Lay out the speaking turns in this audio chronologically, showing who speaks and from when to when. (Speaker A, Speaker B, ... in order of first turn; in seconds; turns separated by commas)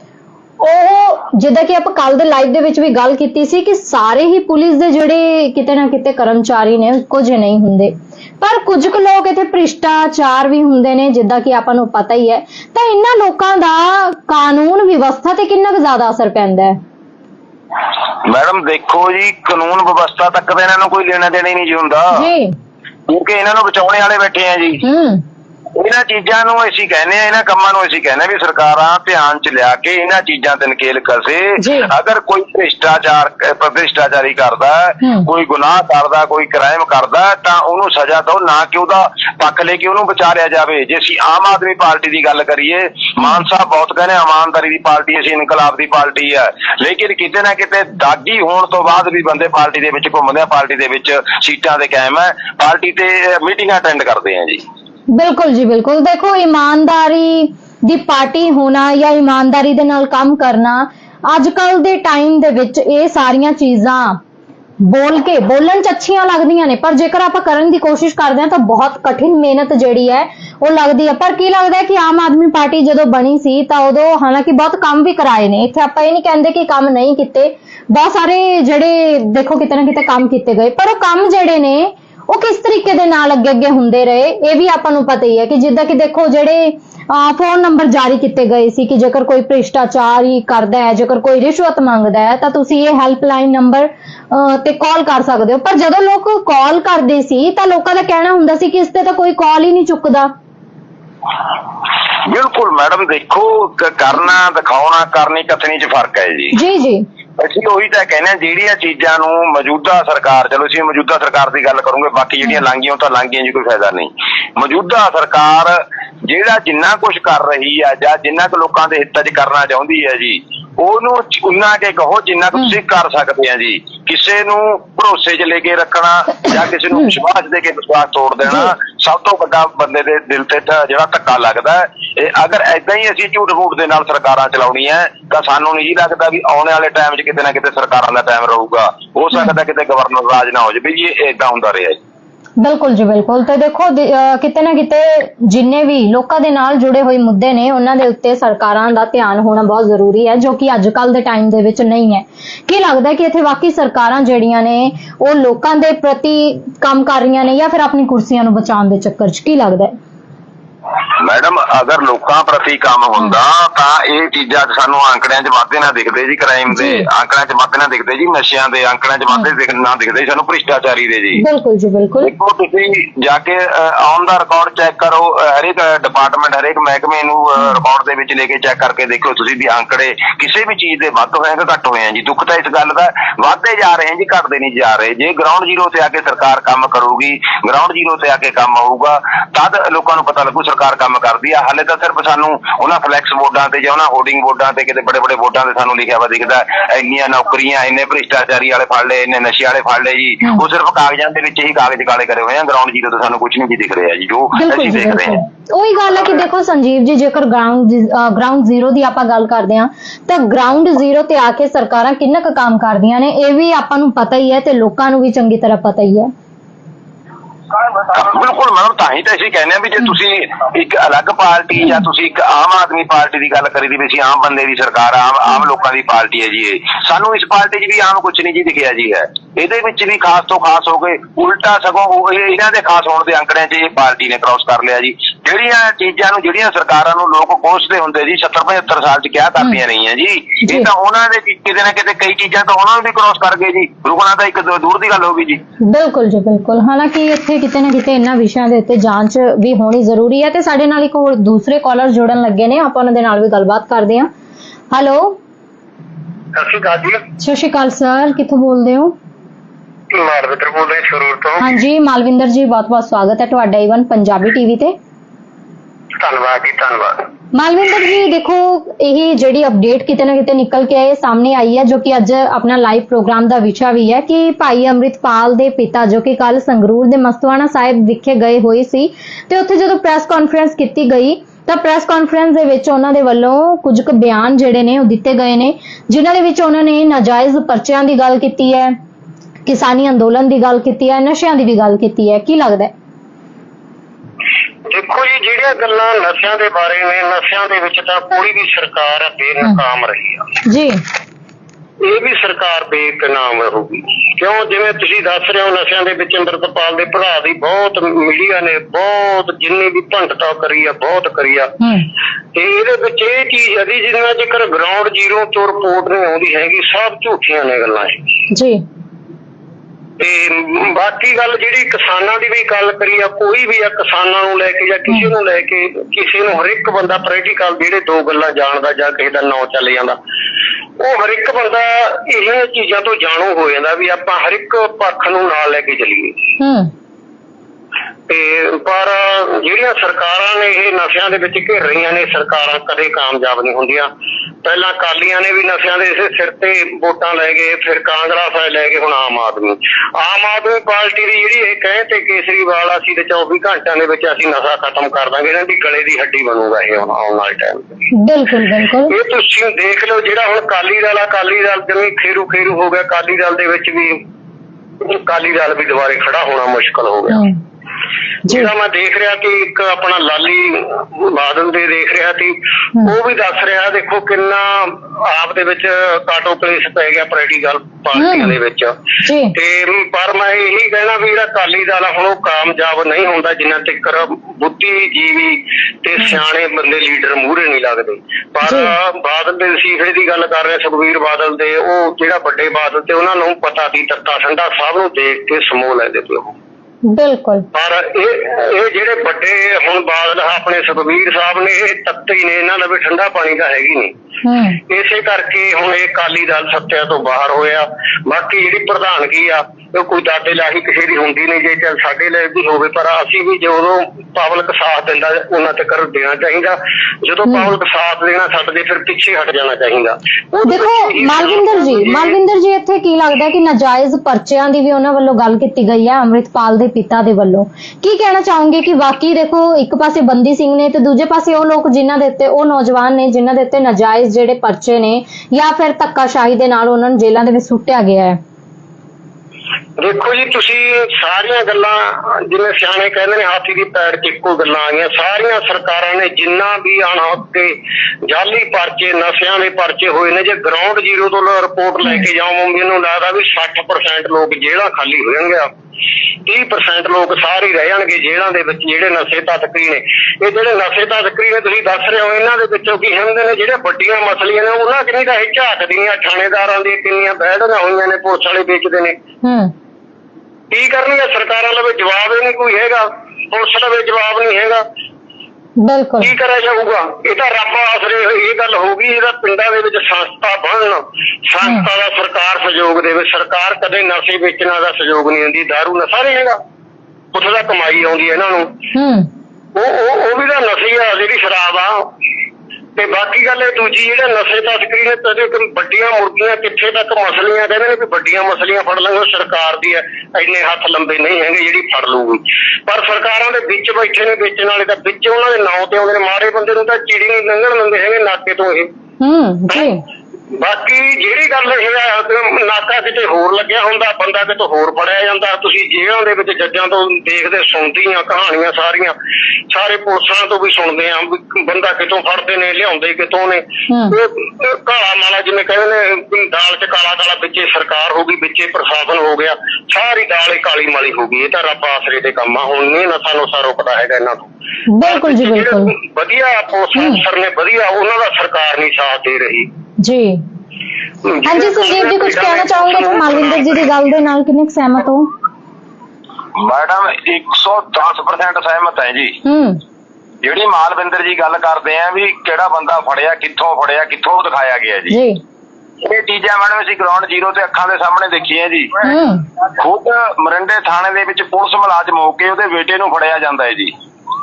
Speaker A: 0.6-16.8, Speaker B: 18.2-22.3, Speaker A: 22.1-22.6, Speaker B: 23.1-24.8, Speaker A: 24.8-25.2, Speaker B: 25.8-54.6, Speaker A: 31.6-31.9, Speaker A: 35.0-35.3, Speaker A: 55.1-64.2, Speaker A: 64.8-100.3, Speaker B: 102.2-106.6, Speaker A: 106.5-107.1, Speaker B: 107.4-142.0, Speaker A: 142.6-159.9, Speaker B: 161.2-171.4, Speaker A: 166.7-167.1, Speaker A: 171.4-172.3, Speaker B: 172.2-205.4, Speaker A: 204.6-216.3, Speaker B: 218.1-245.6, Speaker A: 240.6-240.9, Speaker A: 245.8-254.3, Speaker A: 254.9-255.4, Speaker C: 256.5-257.2, Speaker A: 257.4-259.1, Speaker C: 260.1-261.7, Speaker A: 261.6-265.0, Speaker C: 266.2-267.3, Speaker A: 267.5-289.0, Speaker A: 289.7-292.9, Speaker C: 294.9-300.5, Speaker A: 300.6-301.0, Speaker C: 302.0-311.7, Speaker A: 311.8-312.1, Speaker C: 312.5-318.3, Speaker A: 318.5-318.8, Speaker C: 320.2-330.2, Speaker C: 331.0-336.4, Speaker A: 336.6-336.9, Speaker C: 338.3-344.1, Speaker C: 344.6-358.1, Speaker A: 358.1-359.1, Speaker C: 359.1-364.2, Speaker C: 365.0-367.4, Speaker A: 367.3-367.6, Speaker A: 368.5-368.7, Speaker C: 368.5-379.0, Speaker A: 378.1-378.6, Speaker A: 379.2-379.6, Speaker C: 379.5-396.6, Speaker A: 388.7-388.9, Speaker A: 397.1-397.7, Speaker C: 397.7-404.1, Speaker A: 404.4-404.8, Speaker C: 404.9-422.4, Speaker A: 417.5-417.7, Speaker A: 420.6-438.4, Speaker C: 440.0-455.7, Speaker C: 456.5-469.2, Speaker A: 469.4-469.7, Speaker C: 470.7-474.9, Speaker A: 475.8-476.3, Speaker C: 476.2-486.6, Speaker C: 487.3-488.8, Speaker A: 488.9-489.3, Speaker C: 489.7-492.1, Speaker C: 493.0-508.9, Speaker A: 509.2-510.0, Speaker C: 510.5-519.2, Speaker C: 519.7-539.7, Speaker A: 523.9-524.2, Speaker A: 534.9-535.9, Speaker A: 537.0-537.2, Speaker A: 540.0-540.4, Speaker C: 541.2-543.8, Speaker A: 541.4-545.3, Speaker B: 546.6-549.4, Speaker A: 549.4-549.8, Speaker B: 550.4-555.2, Speaker A: 555.1-555.4, Speaker B: 556.0-559.1, Speaker A: 559.0-559.4, Speaker B: 559.8-563.9